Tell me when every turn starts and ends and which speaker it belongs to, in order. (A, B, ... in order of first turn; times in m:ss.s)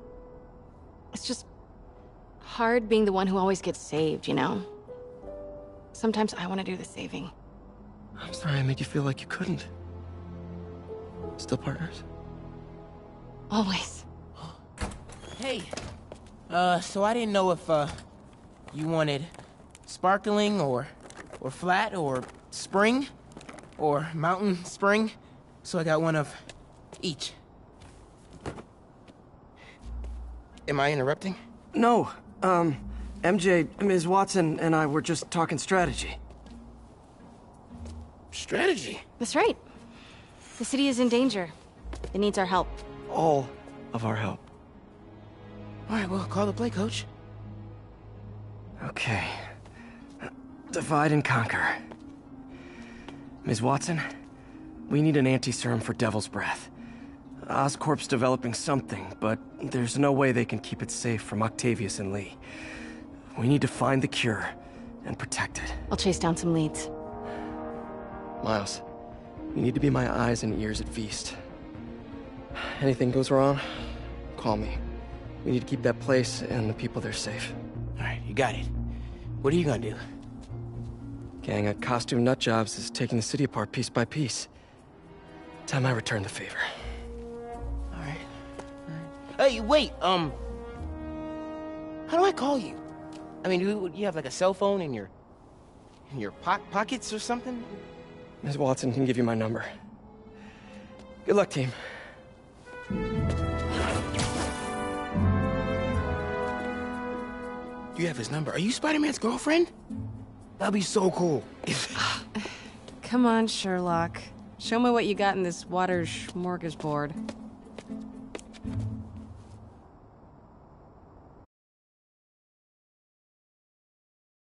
0:01.1-0:01.5 A
0:02.4-0:04.6 A
0:05.9-0:07.3 A
0:08.2-0:09.7 B
0:11.4-0:12.0 B
0:13.5-0:14.0 A
0:15.3-0:15.7 C
0:16.5-0:18.0 C
0:18.7-0:19.3 C
0:19.8-0:23.1 C
0:23.8-0:26.4 C
0:27.0-0:27.4 C
0:30.7-0:31.4 C
0:31.7-0:36.2 B
0:38.3-0:39.0 C
0:39.2-0:39.6 A
0:40.6-0:41.5 A
0:42.1-0:42.8 A
0:43.1-0:44.4 B
0:45.9-0:47.1 C
0:48.8-0:49.5 B
0:50.7-0:51.8 B
0:53.4-0:54.0 B
0:54.9-0:56.7 B
0:57.4-1:02.4 B
1:03.3-1:05.8 B
1:05.9-1:06.9 A
1:08.4-1:08.8 B
1:09.5-1:11.4 B
1:12.5-1:14.8 B
1:15.4-1:17.6 B
1:18.0-1:18.7 C
1:19.4-1:20.0 C
1:21.4-1:24.5 B
1:25.7-1:26.7 B
1:27.9-1:28.3 C
1:28.9-1:30.4 C
1:32.1-1:32.8 C
1:33.4-1:35.1 C
1:36.1-1:37.8 C
1:38.4-1:39.7 B
1:41.2-1:41.8 B
1:47.9-1:49.7 C
1:50.6-1:51.9 C
1:53.0-1:57.2 A